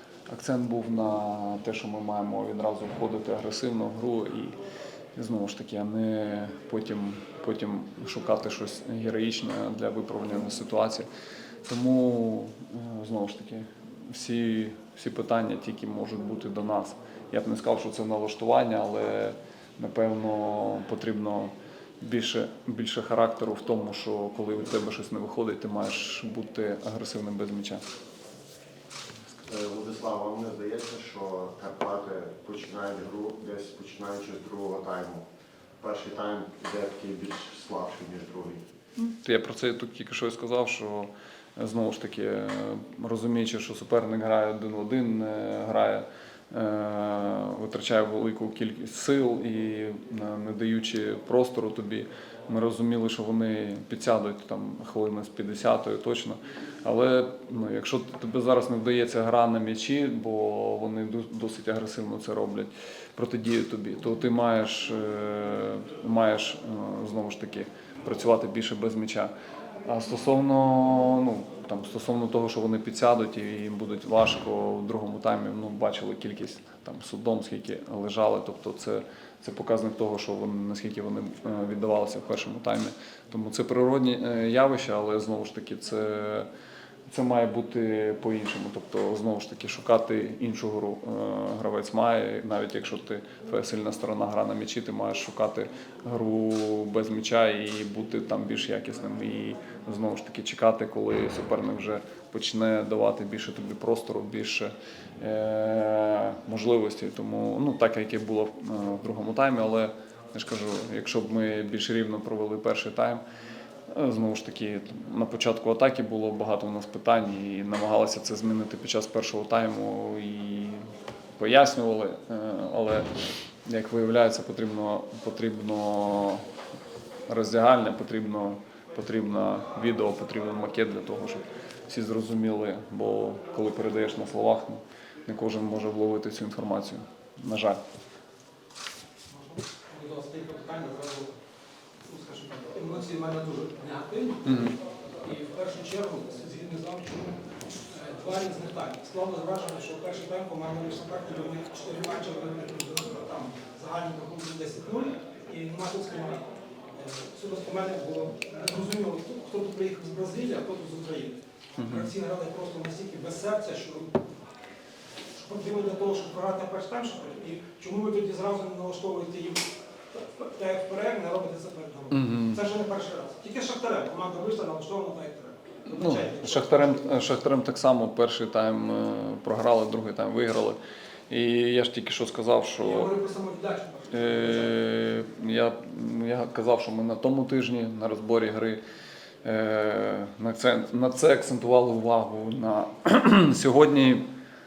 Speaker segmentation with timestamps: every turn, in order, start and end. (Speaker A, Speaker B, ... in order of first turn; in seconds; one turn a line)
Speaker A: 0.3-4.6
Speaker A: 5.2-11.1
Speaker A: 11.7-27.8
Speaker B: 29.5-35.2
Speaker B: 35.8-38.6
Speaker A: 39.0-69.3
Speaker A: 69.8-86.5
Speaker A: 87.1-113.2
Speaker A: 113.9-123.1
Speaker A: 123.7-126.4
Speaker A: 127.3-137.8
Speaker C: 139.3-141.3
Speaker C: 142.1-144.5
Speaker A: 144.4-144.7
Speaker C: 145.2-147.4
Speaker C: 147.9-156.4
Speaker C: 157.0-164.1
Speaker A: 161.8-162.1
Speaker C: 165.4-169.6
Speaker C: 170.1-177.1
Speaker A: 172.1-172.6
Speaker A: 175.9-180.8
Speaker A: 181.3-183.1
Speaker C: 182.8-184.7
Speaker A: 184.1-188.8
Speaker A: 189.4-194.3